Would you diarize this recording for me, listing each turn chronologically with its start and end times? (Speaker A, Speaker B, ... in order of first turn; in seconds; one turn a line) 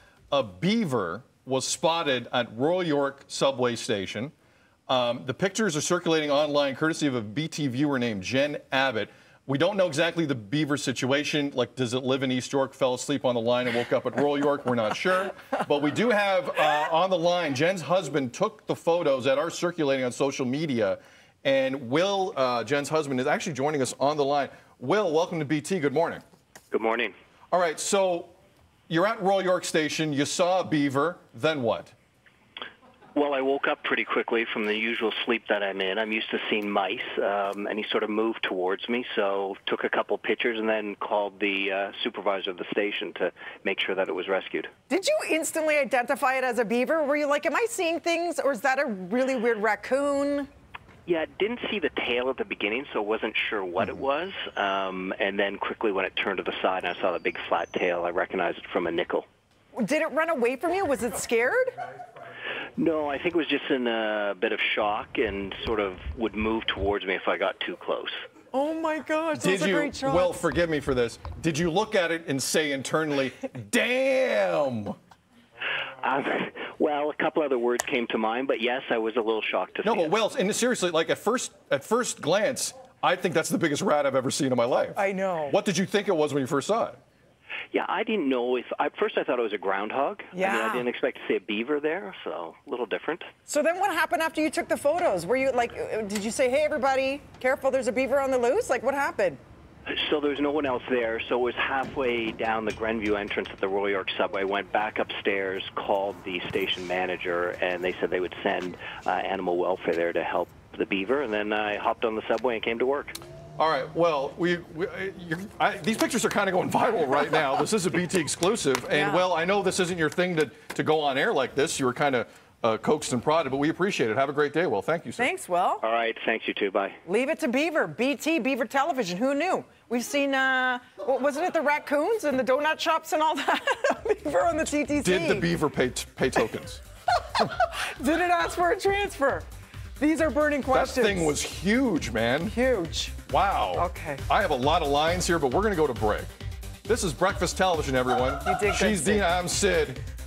Speaker A: 0.3-4.3
Speaker A: 4.9-26.2
Speaker B: 26.7-27.1
Speaker A: 27.5-28.3
Speaker A: 28.9-31.9
Speaker B: 33.1-44.7
Speaker C: 44.9-50.5
Speaker B: 51.0-59.2
Speaker C: 59.8-61.7
Speaker B: 62.8-68.2
Speaker C: 68.5-70.4
Speaker A: 69.3-75.0
Speaker B: 76.0-80.1
Speaker A: 79.8-87.0
Speaker C: 85.0-85.5
Speaker B: 87.7-93.3
Speaker C: 90.3-90.8
Speaker C: 93.5-99.4
Speaker B: 99.9-113.2
Speaker A: 113.6-125.3
Speaker C: 118.9-119.2
Speaker C: 125.2-125.8
Speaker B: 125.8-127.0
Speaker C: 127.0-135.5
Speaker A: 135.0-136.8
Speaker C: 137.3-139.5
Speaker C: 140.0-141.3
Speaker A: 140.7-142.5
Speaker C: 142.4-143.2
Speaker A: 143.3-146.3
Speaker C: 143.8-144.2
Speaker A: 146.8-150.0
Speaker C: 148.4-149.2